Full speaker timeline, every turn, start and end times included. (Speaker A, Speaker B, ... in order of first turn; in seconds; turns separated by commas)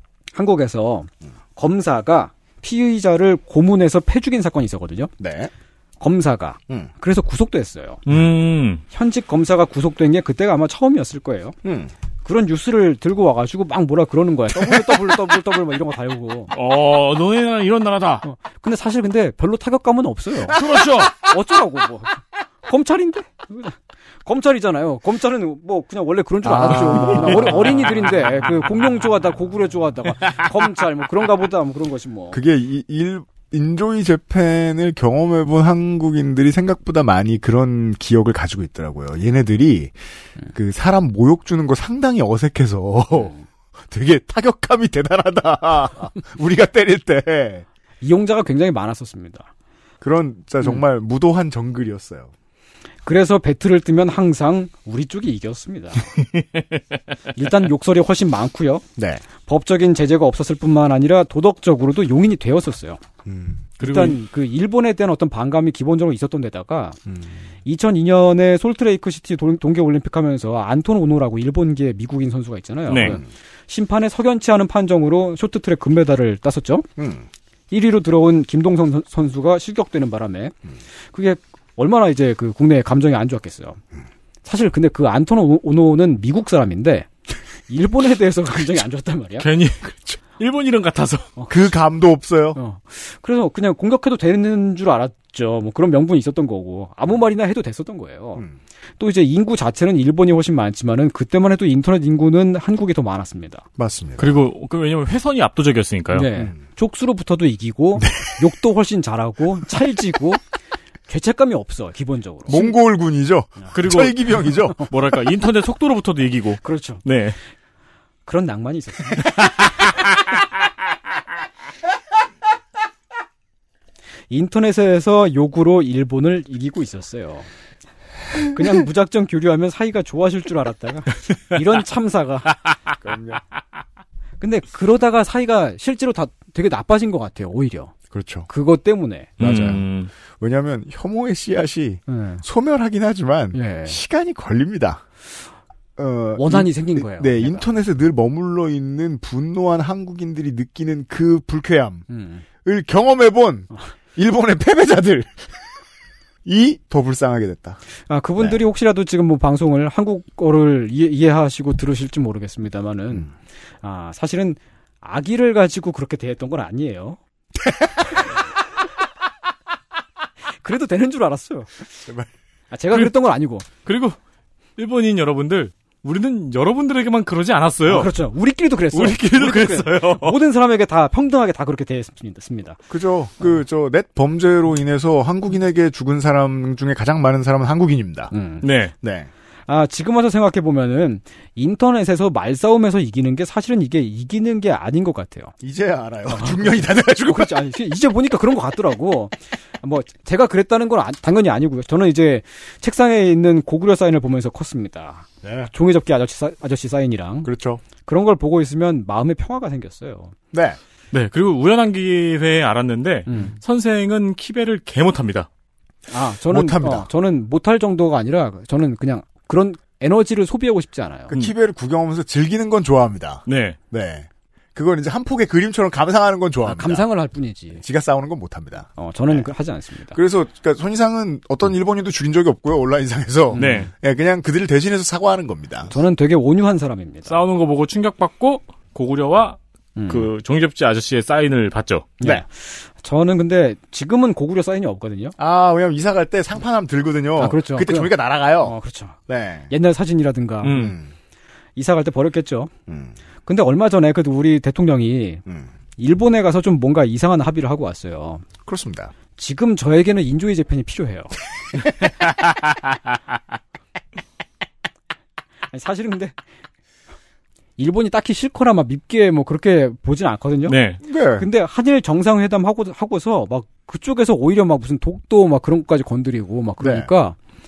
Speaker A: 0.3-5.1, Speaker B: 5.2-5.5, Speaker A: 6.0-8.0, Speaker C: 8.1-8.8, Speaker A: 8.9-11.6, Speaker B: 11.6-11.9, Speaker A: 12.2-16.5, Speaker C: 16.5-18.2, Speaker A: 18.2-20.6, Speaker C: 20.5-21.2, Speaker A: 21.1-32.4, Speaker B: 26.5-27.5, Speaker C: 26.8-27.7, Speaker B: 32.3-40.0, Speaker B: 40.5-43.3, Speaker B: 43.9-47.6, Speaker A: 48.0-49.5, Speaker B: 50.0-52.3, Speaker A: 53.0-56.1, Speaker A: 57.3-58.8, Speaker B: 59.0-59.2, Speaker A: 59.4-63.0, Speaker B: 63.2-63.7, Speaker A: 63.8-67.0, Speaker C: 63.8-64.2, Speaker B: 67.1-67.4, Speaker A: 67.6-76.9, Speaker C: 72.9-73.2, Speaker B: 77.0-77.3, Speaker A: 77.7-80.5, Speaker A: 81.1-83.8, Speaker A: 84.5-87.1, Speaker A: 87.7-89.5, Speaker C: 89.4-91.3, Speaker A: 91.4-91.7, Speaker B: 91.5-92.6, Speaker A: 92.5-98.4, Speaker A: 99.0-103.7, Speaker B: 103.8-104.4, Speaker C: 104.2-106.3, Speaker A: 106.1-110.4, Speaker B: 108.0-108.4, Speaker A: 111.1-112.6, Speaker B: 112.5-114.8, Speaker C: 113.7-117.4, Speaker A: 116.6-117.0, Speaker A: 118.3-119.5, Speaker A: 124.3-127.5, Speaker A: 128.5-132.6, Speaker B: 133.0-133.4, Speaker A: 134.4-137.9, Speaker B: 138.1-138.5, Speaker A: 138.5-139.3, Speaker C: 139.4-140.1, Speaker B: 139.4-145.0, Speaker A: 142.1-142.4, Speaker A: 143.5-144.0, Speaker B: 146.0-152.0, Speaker A: 146.4-147.7, Speaker A: 152.1-152.4, Speaker B: 152.6-155.6, Speaker B: 156.4-157.8, Speaker A: 158.1-167.2, Speaker A: 170.6-171.7, Speaker A: 172.7-173.7, Speaker C: 173.8-174.2, Speaker C: 174.8-178.1, Speaker A: 177.9-182.8, Speaker C: 178.9-180.4, Speaker B: 182.9-188.3, Speaker A: 188.3-188.7, Speaker C: 188.6-188.9, Speaker B: 189.0-189.3, Speaker A: 189.7-195.5, Speaker B: 195.6-197.6, Speaker A: 196.3-207.5, Speaker B: 205.4-205.7, Speaker B: 207.4-207.8, Speaker A: 208.0-210.3, Speaker B: 210.5-210.8, Speaker C: 211.1-215.5, Speaker A: 213.3-213.6, Speaker A: 216.1-221.3, Speaker B: 216.5-217.1, Speaker B: 221.3-227.1, Speaker C: 223.5-223.8, Speaker A: 226.6-227.8, Speaker B: 227.7-229.4, Speaker A: 229.0-230.2, Speaker B: 230.1-235.9, Speaker A: 233.5-233.9, Speaker C: 233.6-233.9, Speaker A: 235.9-237.4, Speaker C: 237.3-242.1, Speaker A: 239.9-240.3, Speaker A: 242.2-245.3, Speaker B: 245.4-248.8, Speaker A: 247.4-249.2, Speaker B: 249.3-249.7, Speaker A: 249.7-250.7, Speaker C: 250.6-250.9, Speaker B: 250.7-251.1, Speaker A: 251.8-252.7, Speaker B: 252.9-253.2, Speaker A: 253.4-255.4, Speaker A: 256.0-258.4, Speaker B: 258.7-259.1, Speaker A: 259.4-261.3, Speaker A: 265.7-266.3, Speaker A: 267.8-270.8, Speaker C: 270.7-271.0, Speaker B: 271.0-271.5, Speaker A: 271.4-277.4, Speaker B: 276.8-277.1